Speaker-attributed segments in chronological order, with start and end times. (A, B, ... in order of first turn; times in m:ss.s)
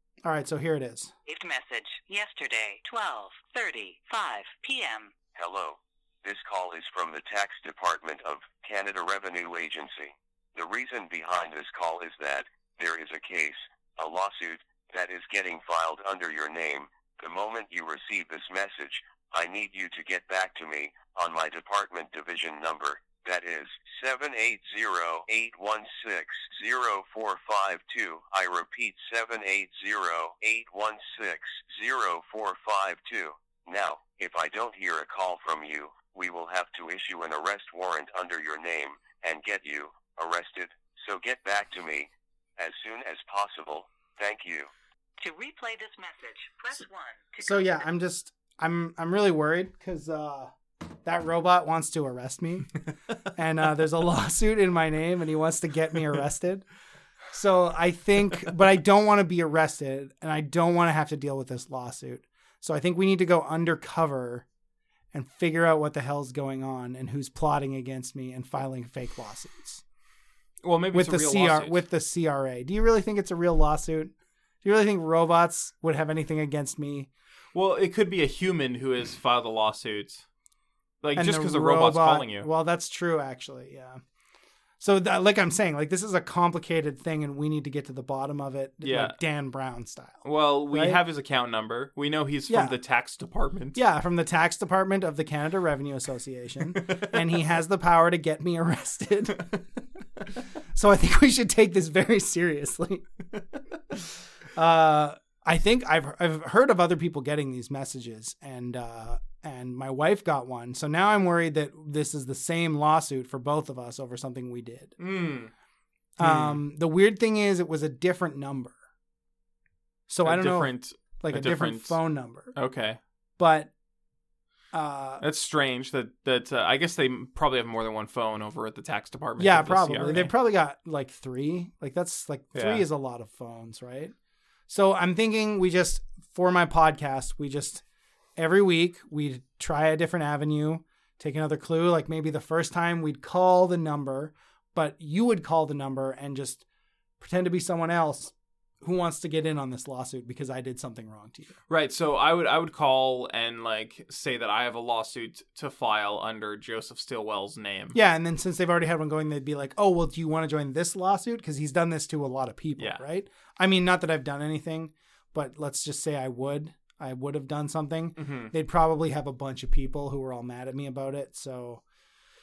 0:00.2-0:01.1 A
0:01.3-0:05.1 B
0:05.3-0:44.7 C
0:45.2-0:47.8 B
0:47.4-0:50.5 A
0:51.0-0:52.8 A
0:53.3-0:56.6 A
0:57.3-1:04.4 A
1:05.1-1:09.8 A
1:10.6-1:11.8 D
1:10.9-1:14.1 A
1:14.6-1:17.1 A
1:17.5-1:20.2 D
1:21.0-1:22.5 D
1:21.2-1:24.0 A
1:24.8-1:31.0 A
1:28.8-1:29.2 D
1:30.2-1:33.8 D
1:32.5-1:32.8 A
1:33.7-1:39.6 A
1:40.7-1:43.0 A
1:44.5-1:55.0 A
1:55.0-1:55.5 D
1:56.2-1:58.8 A
1:56.2-1:56.6 D
2:00.1-2:02.5 A
2:00.2-2:02.0 D
2:02.5-2:03.0 D
2:03.4-2:03.7 A
2:04.7-2:05.2 A
2:05.2-2:10.3 D
2:09.4-2:14.1 A
2:12.5-2:12.8 D
2:14.7-2:17.8 A
2:18.4-2:26.6 A
2:27.2-2:31.6 A
2:31.7-2:38.0 D
2:37.9-2:51.8 A
2:42.8-2:43.0 D
2:48.2-2:48.5 D